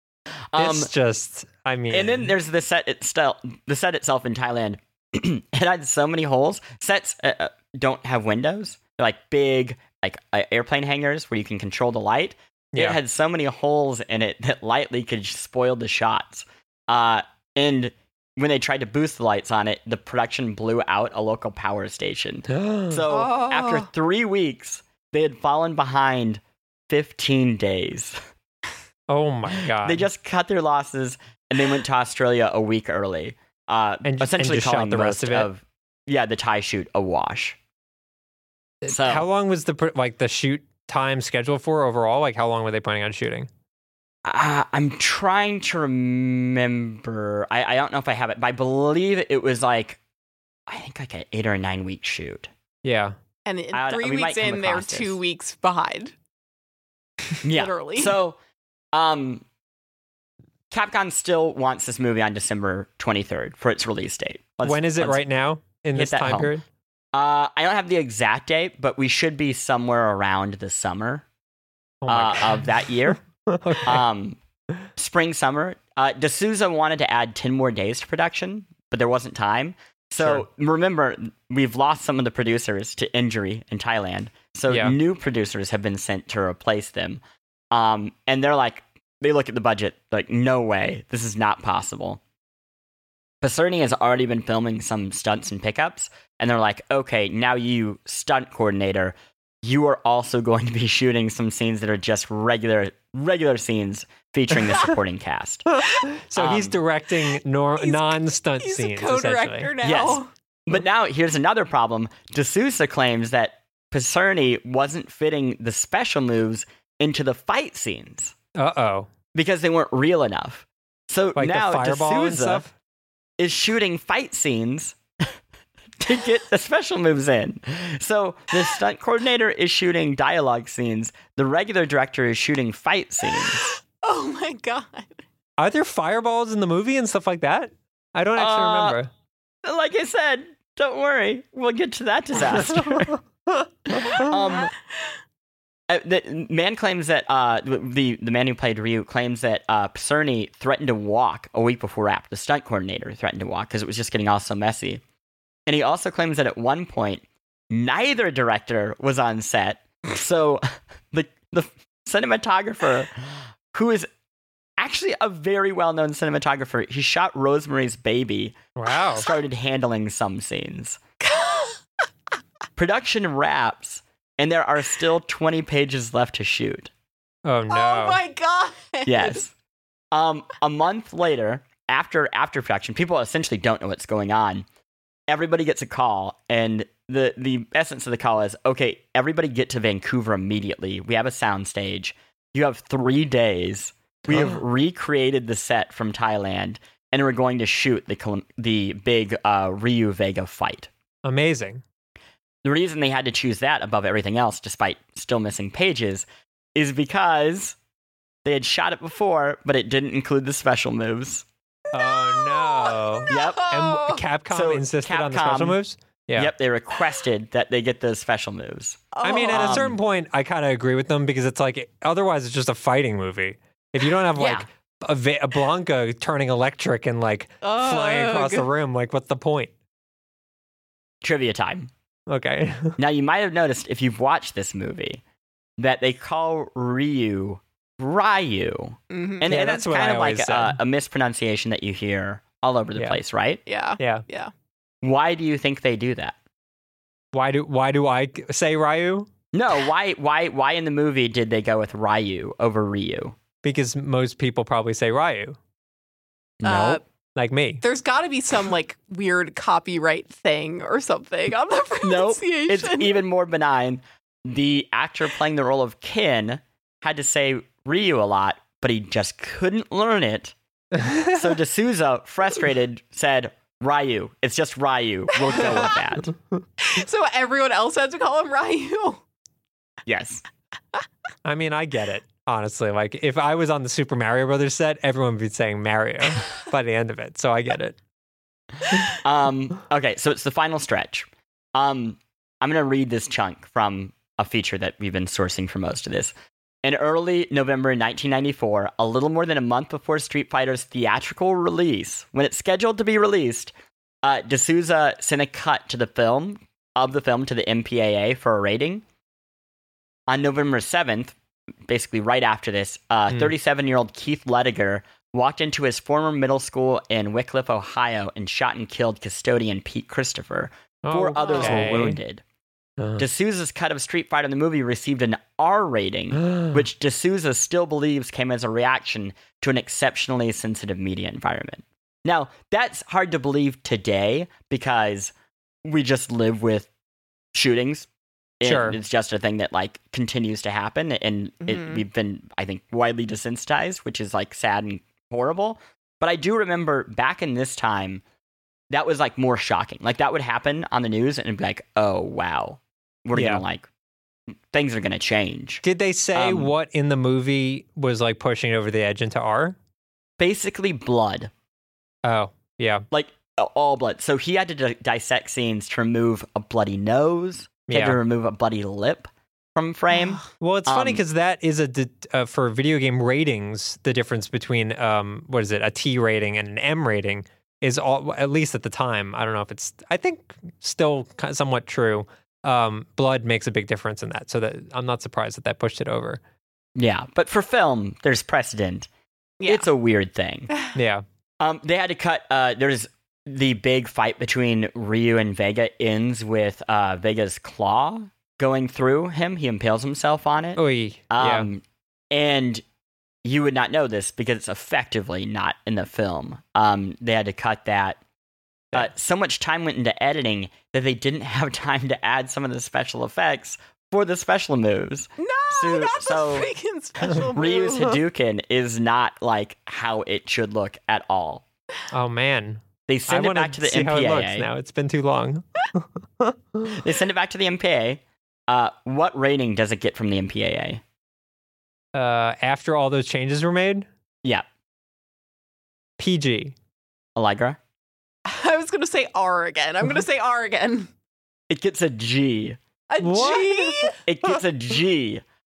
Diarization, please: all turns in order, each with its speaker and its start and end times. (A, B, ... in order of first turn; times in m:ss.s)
0:00.5-0:00.9 A
0:00.6-0:02.3 B
0:01.9-0:28.2 A
0:22.5-0:23.0 B
0:23.1-0:23.9 C
0:29.1-0:30.1 B
0:29.7-0:37.6 A
0:34.0-0:35.5 B
0:38.8-0:43.5 B
0:38.9-0:39.2 A
0:44.2-0:50.0 A
0:50.7-0:52.5 A
0:52.8-0:53.2 B
0:53.4-0:56.1 C
0:53.7-0:55.2 A
0:57.4-0:58.4 A
0:57.5-0:58.1 C
0:58.9-0:59.4 A
1:00.7-1:05.2 A
1:04.6-1:06.6 B
1:05.9-1:06.5 A
1:07.1-1:11.2 A
1:12.0-1:12.9 B
1:12.1-1:13.2 A
1:13.4-1:14.0 B
1:13.8-1:14.4 A
1:15.0-1:32.2 A
1:24.7-1:24.9 B
1:33.4-1:45.7 A
1:46.0-1:49.7 B
1:46.3-1:46.8 A
1:47.8-1:50.3 C
1:49.8-1:58.3 A
1:58.6-1:59.1 B
1:59.3-2:02.6 A
2:01.4-2:02.7 B
2:03.4-2:05.0 A
2:06.0-2:13.7 A
2:13.4-2:15.2 C
2:15.6-2:19.1 B
2:18.4-2:19.0 A
2:19.6-2:23.2 A
2:23.9-2:24.7 A
2:25.9-2:35.0 A
2:35.7-2:44.1 A
2:44.8-2:51.0 A
2:48.8-2:49.3 B
2:51.2-2:51.8 C
2:52.8-2:56.9 A
2:57.4-2:58.2 B
2:57.7-2:59.4 C
2:59.0-2:59.5 A
3:00.1-3:04.6 A
3:05.3-3:20.9 A
3:14.3-3:14.6 B
3:21.2-3:21.8 B
3:22.6-3:27.8 A
3:28.4-3:31.4 A
3:31.9-3:34.2 C
3:31.9-3:36.5 B
3:33.3-3:33.8 A
3:34.5-3:35.8 A
3:36.3-3:40.0 A
3:39.1-3:39.8 C
3:39.2-3:49.7 B
3:44.4-3:44.6 A
3:47.6-3:48.7 C
3:51.2-3:51.9 A
3:52.3-3:53.0 B
3:53.0-3:55.2 A
3:55.8-4:03.6 A
3:59.1-3:59.5 C
3:59.5-4:00.8 B
4:03.6-4:04.5 C
4:04.0-4:04.2 B
4:05.0-4:06.4 A
4:07.3-4:09.3 B
4:09.5-4:13.4 A
4:13.6-4:15.6 B
4:16.6-4:17.0 A
4:16.6-4:17.0 C
4:17.4-4:17.8 B
4:17.8-4:23.2 C
4:22.0-4:30.5 A
4:31.1-4:36.3 A
4:35.3-4:35.9 C
4:36.8-4:39.2 C
4:40.0-4:40.4 A
4:41.4-4:48.0 B
4:49.0-4:56.3 A
4:56.8-5:03.7 A
5:04.2-5:09.0 A
5:10.3-5:11.3 A
5:11.9-5:22.4 A
5:21.0-5:22.2 B
5:21.4-5:21.8 C
5:23.0-5:23.2 B
5:23.2-5:35.3 A
5:26.4-5:26.8 B
5:35.8-5:36.9 A
5:37.5-5:38.1 A
5:38.6-5:48.2 A
5:38.6-5:39.0 B
5:41.7-5:42.0 C
5:48.9-5:53.8 A
5:53.3-5:53.6 B
5:54.7-5:56.7 A
5:55.8-5:59.8 B
6:00.4-6:01.5 A
6:02.2-6:03.0 B
6:03.1-6:11.2 A
6:07.9-6:08.2 B
6:10.1-6:10.4 C
6:10.6-6:26.4 B
6:27.0-6:29.1 A
6:29.6-6:29.9 C
6:29.6-6:30.7 A
6:30.9-6:31.2 B
6:31.6-6:42.8 A
6:40.8-6:41.7 B
6:43.4-6:48.2 A
6:48.9-6:56.7 A
6:55.4-6:58.2 C
6:57.2-7:01.6 A
7:02.1-7:07.0 B
7:03.1-7:04.6 A
7:06.8-7:11.0 A
7:12.1-7:14.1 B
7:16.2-7:16.7 B
7:17.4-7:17.8 A
7:18.4-7:21.1 C
7:21.7-7:22.8 A
7:23.1-7:24.2 C
7:23.2-7:24.1 B
7:24.2-7:25.4 A